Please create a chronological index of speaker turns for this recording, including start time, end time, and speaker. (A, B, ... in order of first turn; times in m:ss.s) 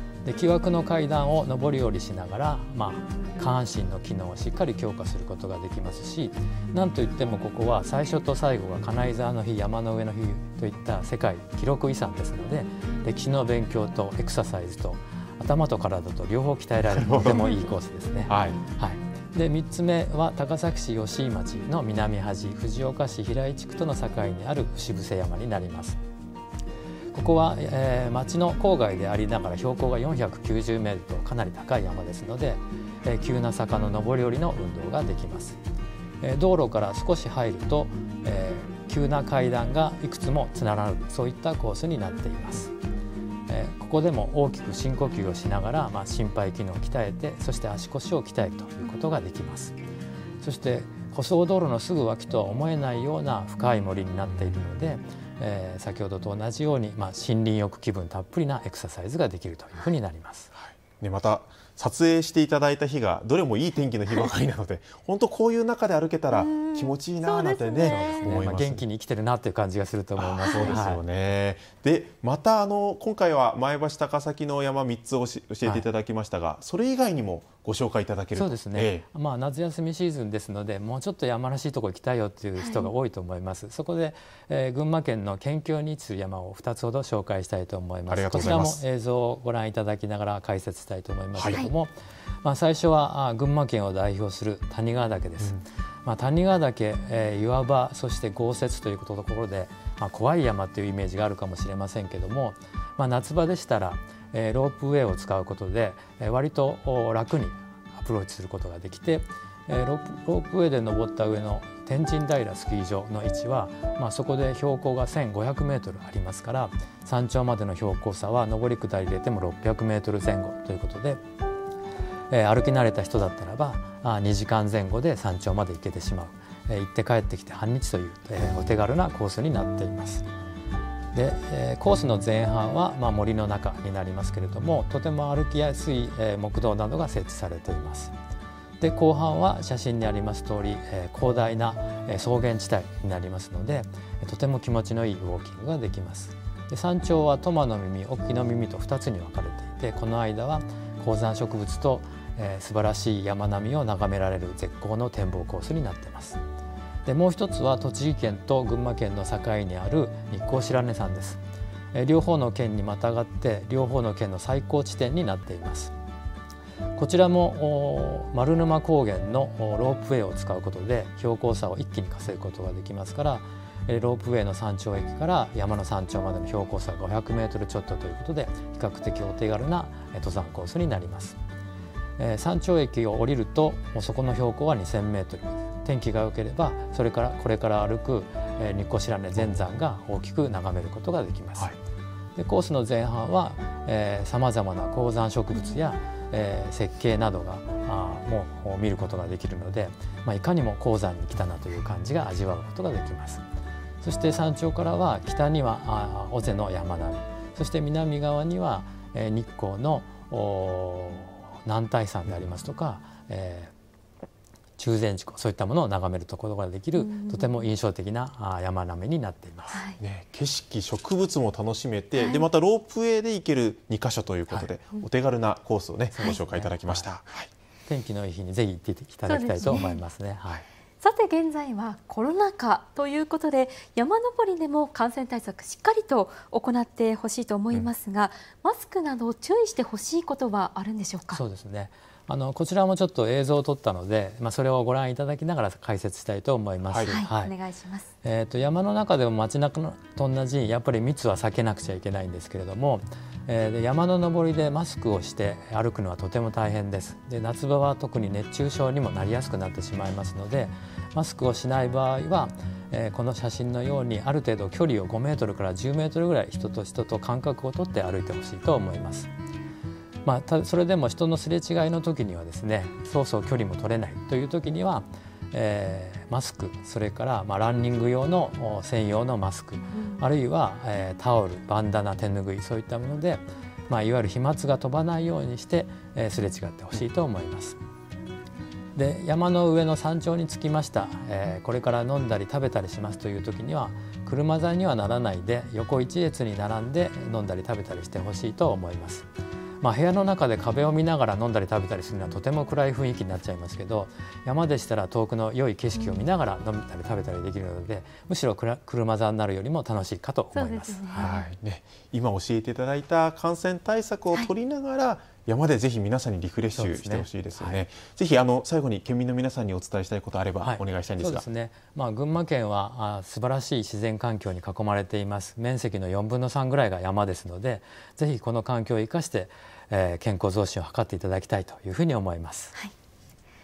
0:00.2-0:26.0 A
0:16.9-0:17.4 B
0:18.3-0:18.6 B
0:27.1-0:35.6 A
0:36.2-0:42.7 A
0:43.5-0:49.8 A
0:50.4-1:00.5 A
1:00.6-1:08.8 B
1:06.3-1:08.3 C
1:07.8-1:11.0 A
1:10.2-1:19.0 B
1:10.5-1:10.8 C
1:18.3-2:01.2 A
1:22.6-1:22.9 C
1:28.1-1:28.8 B
1:31.3-1:31.6 B
2:02.3-2:10.3 A
2:11.1-2:18.1 A
2:18.8-2:36.4 A
2:37.1-2:41.4 A
2:41.9-2:45.9 A
2:47.0-3:01.4 A
3:02.2-3:11.7 A
3:12.4-3:23.4 A
3:24.0-3:33.7 A
3:34.8-3:39.8 A
3:37.0-3:37.7 C
3:39.7-3:40.0 C
3:40.0-3:47.5 B
3:42.2-3:42.4 C
3:46.1-3:47.2 A
3:47.9-3:50.6 A
3:49.3-3:50.0 C
3:51.0-4:01.4 C
4:01.3-4:07.5 A
4:06.8-4:07.2 B
4:07.0-4:08.1 C
4:08.2-4:29.3 A
4:30.2-4:47.8 A
4:48.9-4:59.3 A
4:59.8-5:11.3 A
5:06.0-5:06.2 C
5:10.5-5:11.5 C
5:11.1-5:21.4 B
5:16.7-5:17.8 A
5:20.6-5:32.7 A